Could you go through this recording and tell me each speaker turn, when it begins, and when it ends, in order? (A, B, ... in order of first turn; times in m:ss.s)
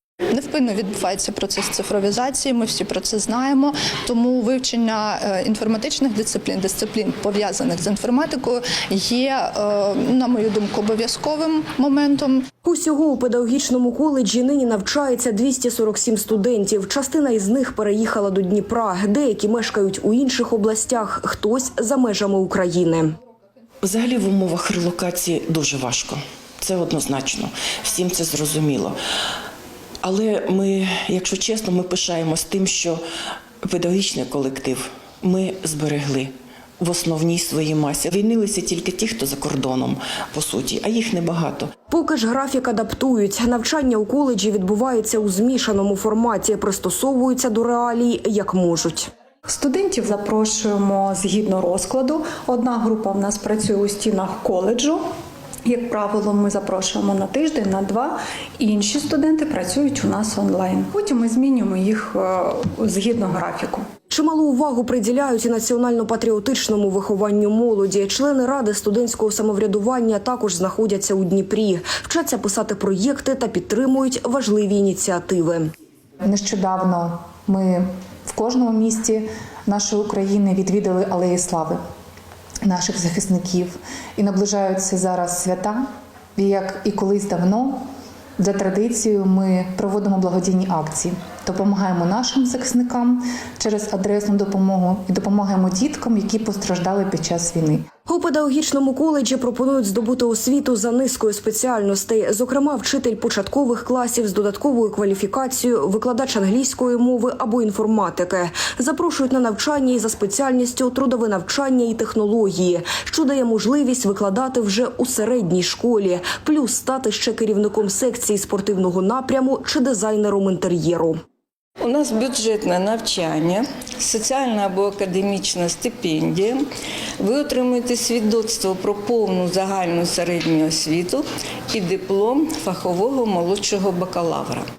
0:00.3-0:12.5 A
0:12.6-0:23.1 B
0:23.8-0:29.0 C
0:30.0-0:33.0 C
0:33.6-0:41.7 C
0:41.9-0:49.1 B
0:49.5-0:55.0 D
0:55.7-1:03.9 D
1:04.1-1:15.7 B
1:16.2-1:21.8 E
1:22.6-1:25.8 E
1:26.4-1:27.8 E
1:28.4-1:37.8 E
1:38.1-2:01.2 B
2:01.8-2:06.6 F
2:07.2-2:14.7 F